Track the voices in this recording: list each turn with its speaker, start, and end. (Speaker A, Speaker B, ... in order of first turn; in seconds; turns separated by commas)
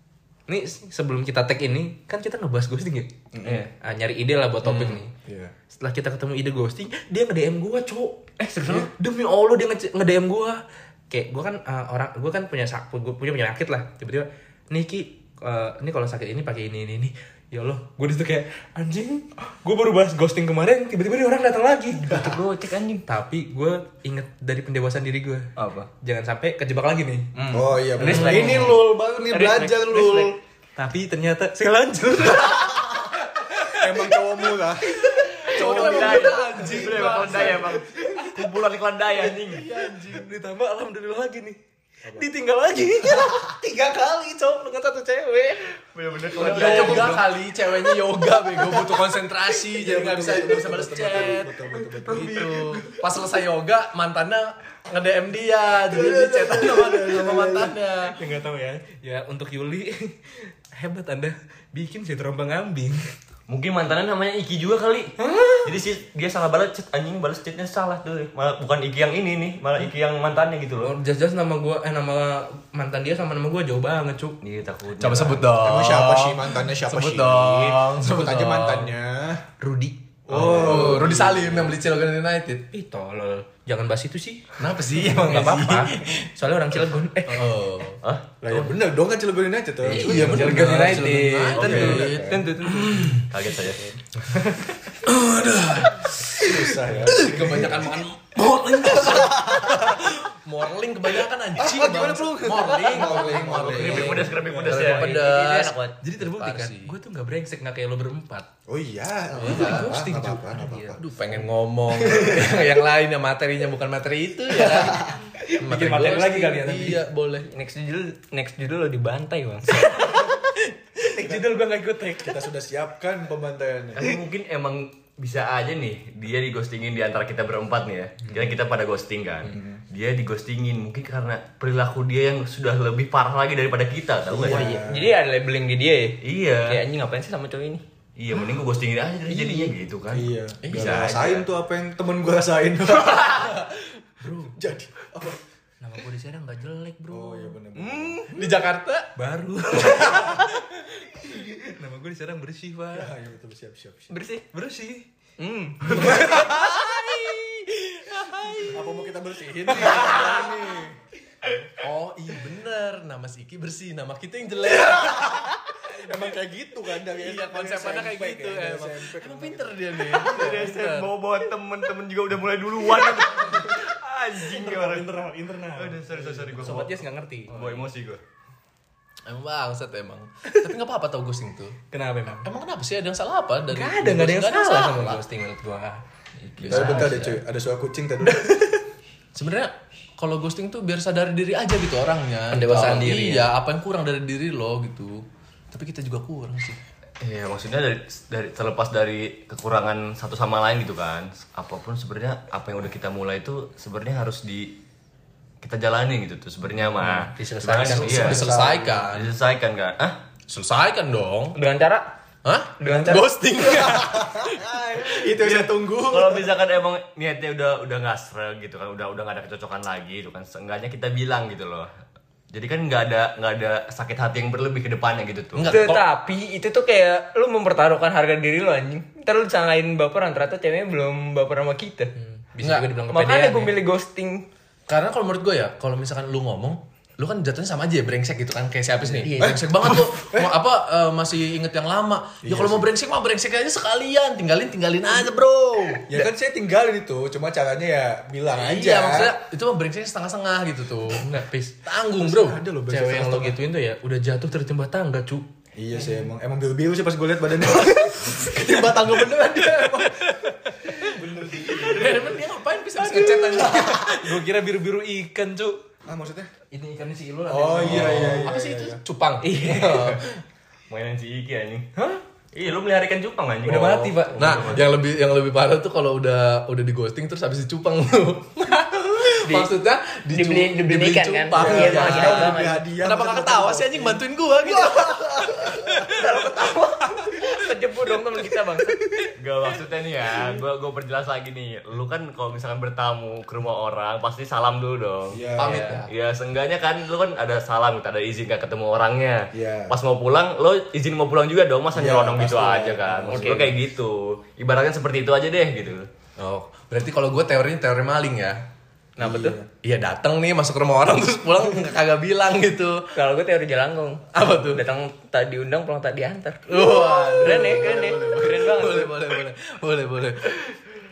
Speaker A: 0.5-3.1, Speaker B: 3.3-3.7, Speaker A: 3.7-5.1, Speaker B: 5.2-5.5, Speaker A: 5.7-22.3, Speaker C: 8.4-8.9, Speaker C: 21.9-23.1, Speaker A: 23.1-28.8, Speaker C: 25.6-25.9, Speaker C: 27.4-30.3, Speaker B: 27.5-30.4, Speaker D: 28.1-28.7, Speaker A: 30.1-32.9, Speaker B: 33.6-35.0, Speaker A: 34.8-38.3, Speaker D: 35.5-37.8, Speaker B: 35.5-36.3, Speaker E: 35.6-39.6, Speaker A: 39.5-41.6, Speaker D: 39.5-40.3, Speaker B: 42.0-42.3, Speaker A: 42.1-45.8, Speaker E: 46.0-47.2, Speaker A: 46.3-47.2, Speaker D: 46.4-58.2, Speaker B: 46.5-47.0, Speaker A: 48.2-49.0, Speaker B: 49.7-53.0, Speaker A: 52.1-52.4, Speaker B: 55.9-57.8, Speaker A: 58.1-63.0, Speaker E: 63.5-70.9, Speaker A: 65.2-65.7, Speaker A: 70.8-74.4, Speaker E: 74.4-75.5, Speaker D: 75.0-78.9, Speaker B: 75.6-79.4, Speaker A: 79.6-80.8, Speaker B: 80.3-81.7, Speaker D: 80.3-82.7, Speaker A: 82.7-87.6, Speaker D: 84.6-86.1, Speaker D: 87.3-88.0, Speaker E: 88.0-88.7, Speaker B: 88.4-92.5, Speaker D: 89.9-92.4, Speaker A: 89.9-92.1, Speaker C: 91.6-93.3, Speaker A: 92.7-95.0, Speaker E: 93.3-93.8, Speaker D: 95.0-107.0, Speaker B: 96.4-98.0, Speaker A: 96.4-97.3, Speaker A: 98.4-99.8, Speaker B: 99.0-100.0, Speaker B: 101.6-104.4, Speaker A: 102.9-105.0, Speaker E: 103.7-105.6, Speaker C: 104.9-105.9, Speaker A: 106.1-108.5, Speaker B: 108.7-111.0, Speaker D: 109.4-109.9, Speaker A: 109.5-111.2, Speaker D: 111.0-115.1, Speaker B: 112.1-112.4, Speaker B: 114.5-115.2, Speaker A: 115.3-117.0, Speaker D: 115.6-117.5, Speaker C: 117.5-119.9, Speaker A: 119.8-122.4, Speaker B: 122.2-124.0, Speaker E: 124.0-134.6, Speaker B: 129.4-129.8, Speaker B: 134.3-135.2, Speaker C: 134.5-137.8, Speaker E: 136.2-136.8, Speaker E: 138.2-141.5, Speaker A: 139.3-139.7, Speaker B: 140.1-143.5, Speaker D: 140.6-141.1, Speaker D: 143.3-143.8, Speaker A: 144.2-144.5, Speaker B: 144.5-145.4, Speaker A: 145.8-147.6, Speaker B: 147.1-148.2, Speaker C: 147.8-148.2, Speaker D: 148.2-149.1, Speaker A: 149.2-153.1, Speaker B: 152.9-154.2, Speaker C: 154.1-154.4, Speaker A: 154.5-155.1, Speaker C: 155.4-156.5, Speaker A: 155.8-158.8, Speaker B: 155.9-156.5, Speaker B: 158.7-161.0, Speaker A: 159.7-160.5, Speaker D: 161.8-165.5, Speaker B: 165.3-170.2, Speaker D: 167.2-171.1, Speaker E: 170.2-178.2, Speaker A: 174.4-177.6, Speaker D: 179.2-185.2, Speaker A: 181.9-182.5, Speaker A: 183.7-186.0, Speaker A: 186.6-187.4, Speaker D: 186.6-187.3, Speaker B: 186.7-188.6, Speaker A: 188.3-188.8, Speaker D: 189.3-196.8, Speaker C: 192.5-193.5, Speaker E: 197.2-204.8, Speaker E: 205.6-210.2, Speaker A: 207.2-208.5, Speaker D: 207.8-209.4, Speaker B: 208.2-209.0, Speaker D: 210.5-211.6, Speaker C: 211.6-212.1, Speaker D: 212.4-214.8, Speaker C: 212.8-213.3, Speaker B: 213.6-216.5, Speaker E: 215.2-221.9, Speaker A: 215.5-216.1, Speaker E: 222.5-225.7, Speaker D: 225.5-226.0, Speaker C: 225.7-232.2, Speaker A: 232.4-233.8, Speaker D: 232.6-233.0, Speaker C: 233.1-234.5, Speaker D: 234.9-246.1, Speaker C: 239.2-239.9, Speaker B: 239.4-240.6, Speaker B: 242.4-242.9, Speaker B: 246.1-249.4, Speaker D: 248.6-252.6, Speaker A: 251.2-251.8, Speaker B: 252.2-253.6, Speaker A: 252.9-256.2, Speaker B: 255.8-260.1, Speaker A: 257.8-262.1, Speaker B: 261.0-262.3, Speaker D: 261.7-264.4, Speaker A: 262.9-265.8, Speaker B: 266.1-266.5, Speaker A: 266.7-268.5, Speaker B: 267.5-269.0, Speaker D: 267.8-270.2, Speaker A: 269.4-270.2, Speaker E: 270.9-271.9, Speaker A: 272.0-272.2, Speaker E: 272.5-274.6, Speaker A: 273.6-274.8, Speaker D: 274.4-286.5, Speaker C: 280.3-282.8, Speaker B: 281.5-286.2, Speaker C: 286.1-289.0, Speaker D: 287.1-287.5, Speaker E: 289.4-295.4, Speaker B: 295.3-295.8, Speaker D: 295.6-296.1, Speaker C: 295.6-296.0, Speaker E: 296.1-306.1, Speaker B: 299.5-300.0, Speaker B: 301.9-303.7, Speaker C: 303.3-303.8, Speaker D: 306.4-308.6, Speaker C: 309.2-309.6, Speaker B: 309.2-309.7, Speaker D: 309.8-313.1, Speaker C: 313.1-319.2, Speaker D: 314.3-314.8, Speaker D: 316.7-320.6